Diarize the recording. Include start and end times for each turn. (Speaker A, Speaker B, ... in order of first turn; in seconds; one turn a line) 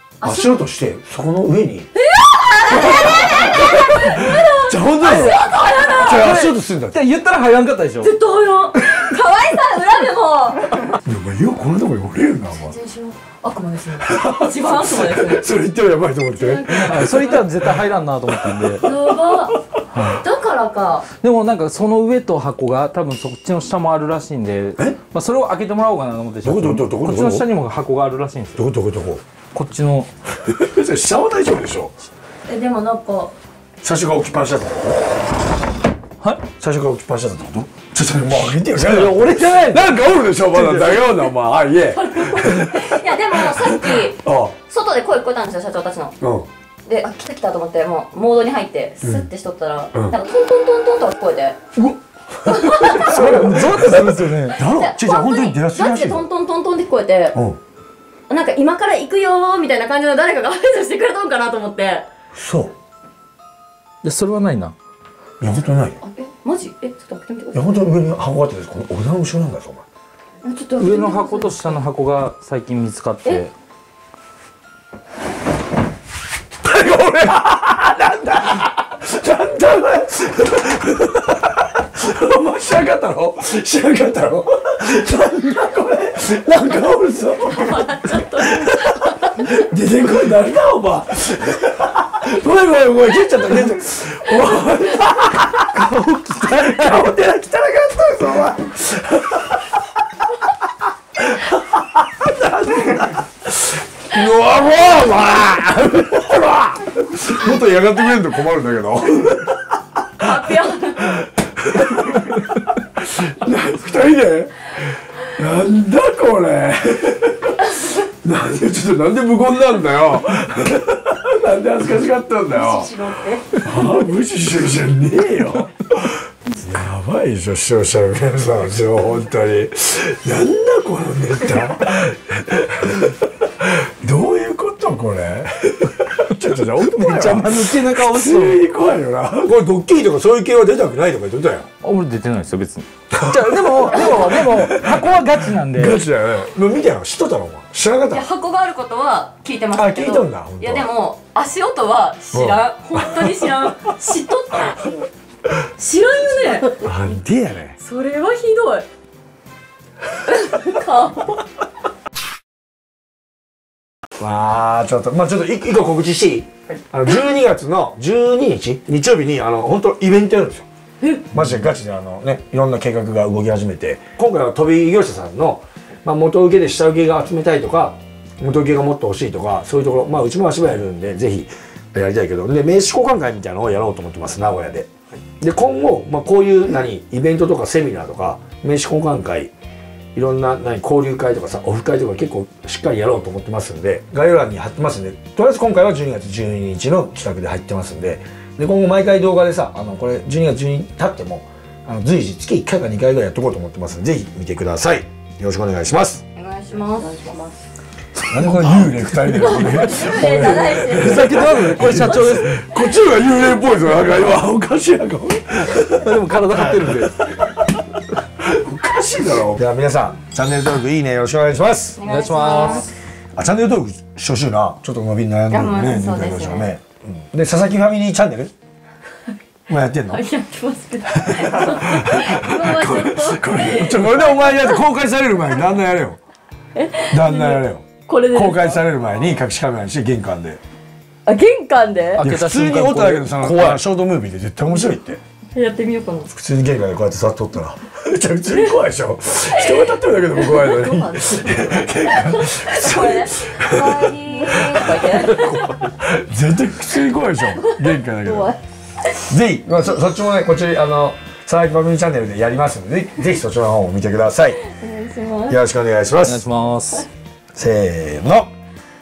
Speaker A: 0.2-0.6
Speaker B: 0.2-1.9
Speaker A: 1.9-6.3
Speaker B: 2.7-7.0
Speaker C: 5.0-8.1
Speaker A: 8.0-11.0
Speaker B: 11.0-12.8
Speaker A: 12.5-15.4
Speaker B: 14.0-20.1
Speaker A: 16.3-17.4
Speaker C: 16.8-18.9
Speaker A: 18.8-19.6
Speaker C: 19.9-20.2
Speaker A: 20.2-21.1
Speaker C: 21.1-28.6
Speaker B: 26.4-27.5
Speaker B: 28.6-29.2
Speaker C: 29.5-30.1
Speaker B: 30.3-31.9
Speaker A: 32.5-33.3
Speaker B: 33.8-35.3
Speaker B: 36.6-44.5
Speaker C: 38.7-40.0
Speaker C: 40.5-41.0
Speaker A: 41.9-46.1
Speaker B: 46.2-46.5
Speaker A: 46.9-51.6
Speaker B: 49.0-49.3
Speaker B: 51.7-56.3
Speaker A: 52.5-53.3
Speaker C: 52.9-54.6
Speaker A: 54.6-57.4
Speaker B: 57.3-57.6
Speaker A: 58.3-62.1
Speaker B: 62.3-62.7
Speaker C: 64.0-64.7
Speaker B: 65.4-66.0
Speaker A: 66.0-67.7
Speaker B: 67.5-69.8
Speaker A: 70.4-71.8
Speaker C: 70.8-73.5
Speaker B: 76.6-100.6
Speaker A: 87.5-89.5
Speaker C: 95.6-97.1
Speaker B: 101.2-122.9
Speaker A: 110.2-111.1
Speaker A: 122.5-123.5
Speaker B: 123.6-141.7
Speaker C: 136.8-138.6
Speaker C: 141.8-146.0
Speaker B: 143.1-148.2
Speaker A: 148.1-155.0
Speaker B: 149.7-150.9
Speaker B: 152.3-153.7
Speaker A: 155.8-157.1
Speaker B: 156.8-157.8
Speaker A: 157.8-158.9
Speaker A: 160.2-161.4
Speaker B: 164.2-170.7
Speaker A: 171.0-171.2
Speaker B: 171.3-189.5
Speaker B: 190.1-206.2
Speaker A: 206.3-207.6
Speaker B: 208.3-217.6
Speaker C: 208.3-212.6
Speaker A: 209.4-212.3
Speaker C: 215.8-217.2
Speaker B: 218.4-222.0
Speaker A: 222.0-222.9
Speaker C: 222.0-222.9
Speaker B: 223.3-228.5
Speaker A: 225.5-226.7
Speaker B: 229.7-230.2
Speaker A: 230.1-234.8
Speaker B: 231.0-236.2
Speaker A: 236.7-238.8
Speaker B: 237.1-240.6
Speaker A: 241.2-242.2
Speaker C: 242.2-243.8
Speaker B: 242.2-245.2
Speaker A: 245.5-246.3
Speaker B: 246.3-258.6
Speaker A: 249.6-255.7
Speaker A: 257.6-259.2
Speaker B: 259.2-264.6
Speaker A: 264.6-265.6
Speaker B: 265.5-266.5
Speaker C: 266.2-267.1
Speaker B: 267.5-268.5